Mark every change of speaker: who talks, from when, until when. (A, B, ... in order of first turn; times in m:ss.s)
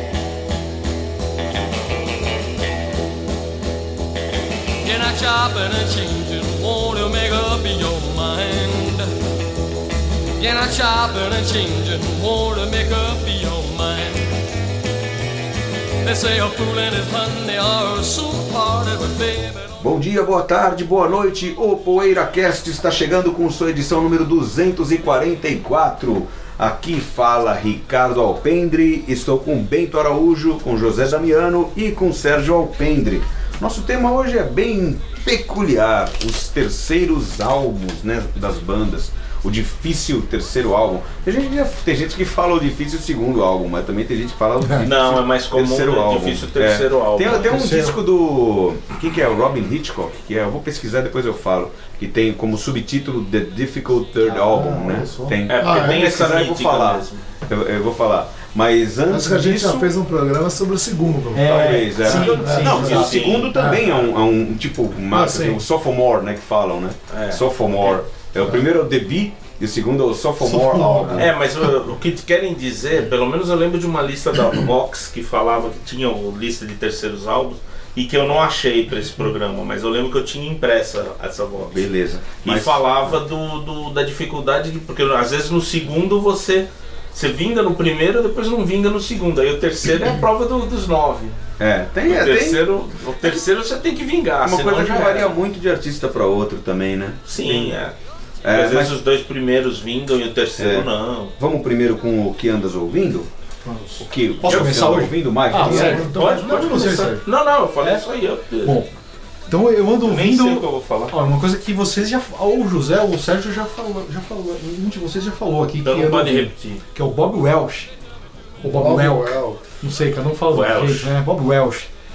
0:04.8-0:09.1 A
0:10.4-0:14.3 A
0:16.0-0:19.8 A
0:19.8-1:00.0 B
0:44.8-0:47.6 C
0:47.4-0:48.0 D
0:54.2-0:55.4 D
0:54.5-0:55.0 E
0:55.5-0:57.2 C
0:55.6-0:56.1 E
0:59.1-1:03.8 E
1:01.3-1:03.6 D
1:01.4-1:11.3 B
1:02.2-1:03.5 C
1:05.1-1:05.6 D
1:07.1-1:07.4 C
1:10.4-1:11.3 D
1:11.1-1:21.9 C
1:21.7-1:22.8 B
1:22.4-1:31.4 C
1:31.6-1:32.6 B
1:32.1-1:35.4 C
1:34.4-1:37.8 B
1:37.2-1:38.0 C
1:38.4-1:38.9 B
1:38.5-1:41.3 C
1:40.6-1:40.9 B
1:41.4-1:43.3 B
1:43.6-1:47.2 D
1:44.0-1:46.1 B
1:45.6-1:47.0 E
1:45.7-1:48.8 C
1:48.6-1:48.9 D
1:49.5-1:57.9 D
1:50.0-1:51.2 C
1:55.8-1:56.8 C
1:58.6-1:59.6 E
1:58.6-2:01.9 D
2:00.5-2:01.1 C